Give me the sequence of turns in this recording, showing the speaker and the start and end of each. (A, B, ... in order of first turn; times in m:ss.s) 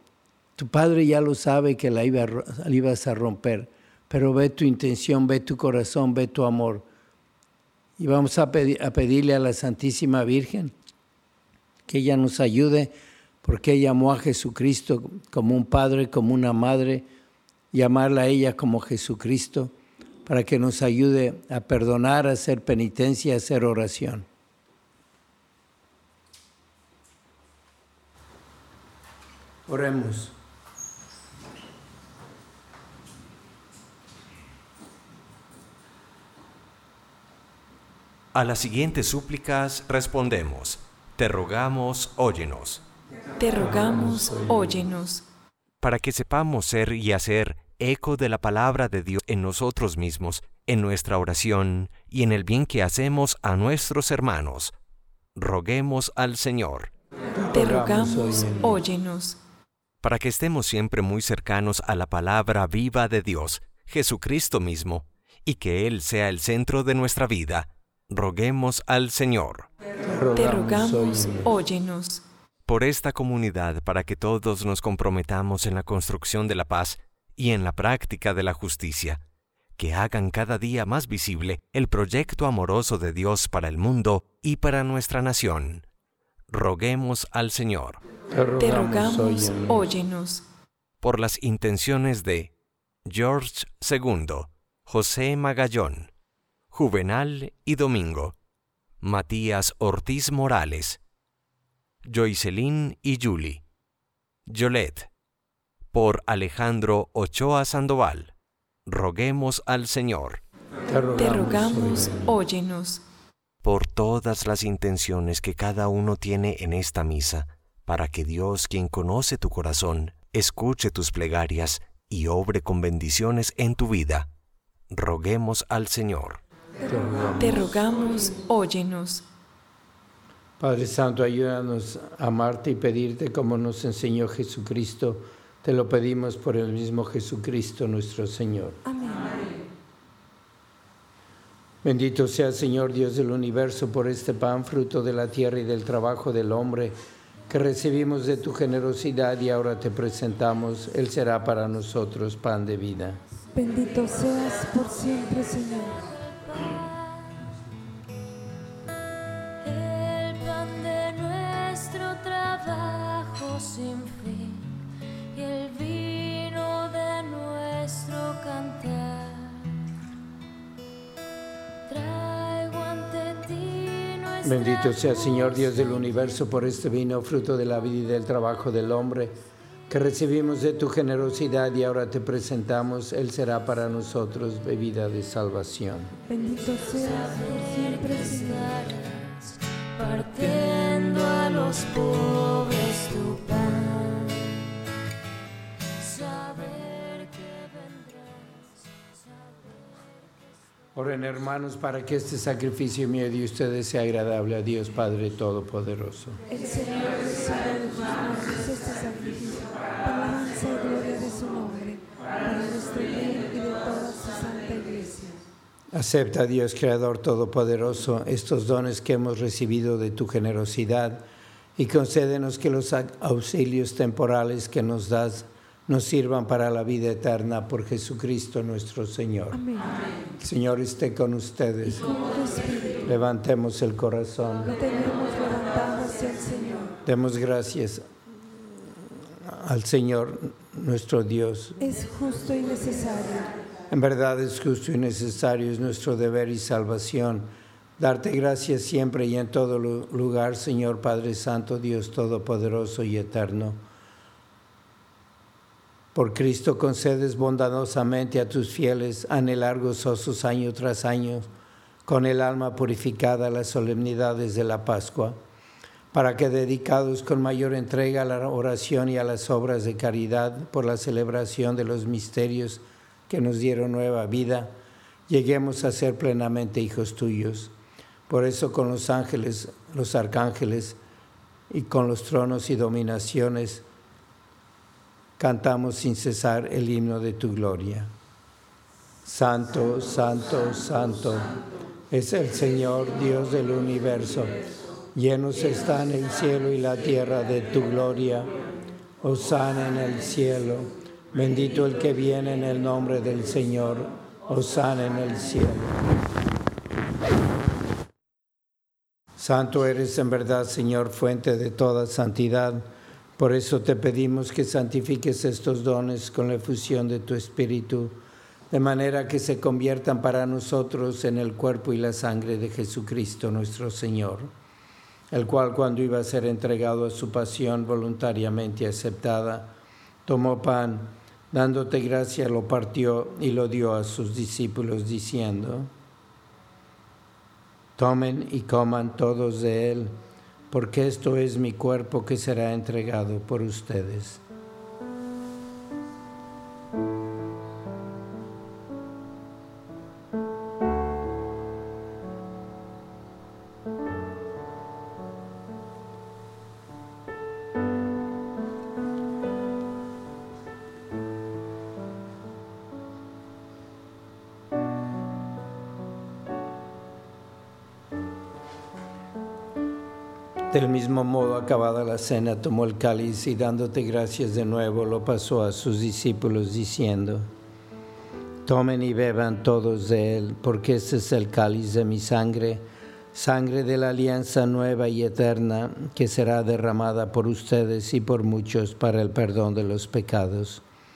0:00.6-0:06.9 A
0:08.0-0:10.7 A
0:11.9-0:17.1 A
0:17.7-0:19.7 A
0:20.3-0:24.3 A
0:29.7-0:30.4 A
0:38.3-0:42.8 B
0:43.4-0:45.2 C
0:45.8-0:54.7 B
0:55.4-0:56.9 B
0:57.4-0:58.8 A
0:57.5-0:59.4 C
1:00.0-1:09.7 B
1:10.0-1:11.6 A
1:10.4-1:12.2 C
1:12.7-1:19.2 B
1:19.8-1:25.8 B
1:26.5-1:28.0 B
1:28.3-1:29.9 A
1:28.6-1:30.4 C
1:31.0-1:32.5 B
1:33.0-1:36.1 B
1:36.7-1:38.4 B
1:39.0-1:41.0 B
1:42.0-1:43.6 B
1:44.5-1:45.1 B
1:45.9-1:48.3 B
1:48.9-1:50.4 B
1:50.9-1:52.4 A
1:51.2-1:53.0 C
1:53.6-2:04.3 B
2:04.9-2:06.4 B
2:06.9-2:08.1 D
2:06.9-2:07.7 A
2:07.4-2:09.2 C
2:10.6-2:18.8 A
2:18.8-2:19.4 D
2:21.8-2:27.0 A
2:27.5-2:33.2 A
2:33.5-2:36.0 D
2:36.0-2:37.3 E
2:39.6-2:44.8 E
2:45.3-2:49.7 E
2:51.9-2:56.8 E
2:54.4-3:06.1 A
3:06.3-3:08.8 D
3:06.7-3:14.5 E
3:16.0-3:19.7 E
3:21.0-3:26.4 A
3:26.5-3:35.4 D
3:35.9-3:49.6 A
3:49.5-3:49.9 D
3:50.4-3:52.1 A
3:51.9-3:53.0 D
3:53.0-3:54.7 A
3:54.6-3:56.9 D
3:57.0-3:58.1 A
3:59.4-4:01.8 A
4:01.8-4:03.5 D
4:03.9-4:13.8 A
4:16.2-4:21.5 A
4:22.1-4:25.4 A
4:26.1-4:34.8 A
4:35.3-4:37.7 A
4:38.3-4:41.0 A
4:41.7-4:43.9 A
4:45.4-4:48.1 A
4:49.2-4:51.5 A
4:52.1-4:54.6 A
4:55.1-4:58.5 A
4:59.2-5:06.0 A
5:09.4-5:18.2 A
5:18.7-5:24.5 A
5:25.3-5:29.7 A
5:30.3-5:35.9 A
5:38.0-5:40.2 A
5:40.7-5:44.4 A
6:10.7-6:17.5 A
6:18.6-6:30.8 A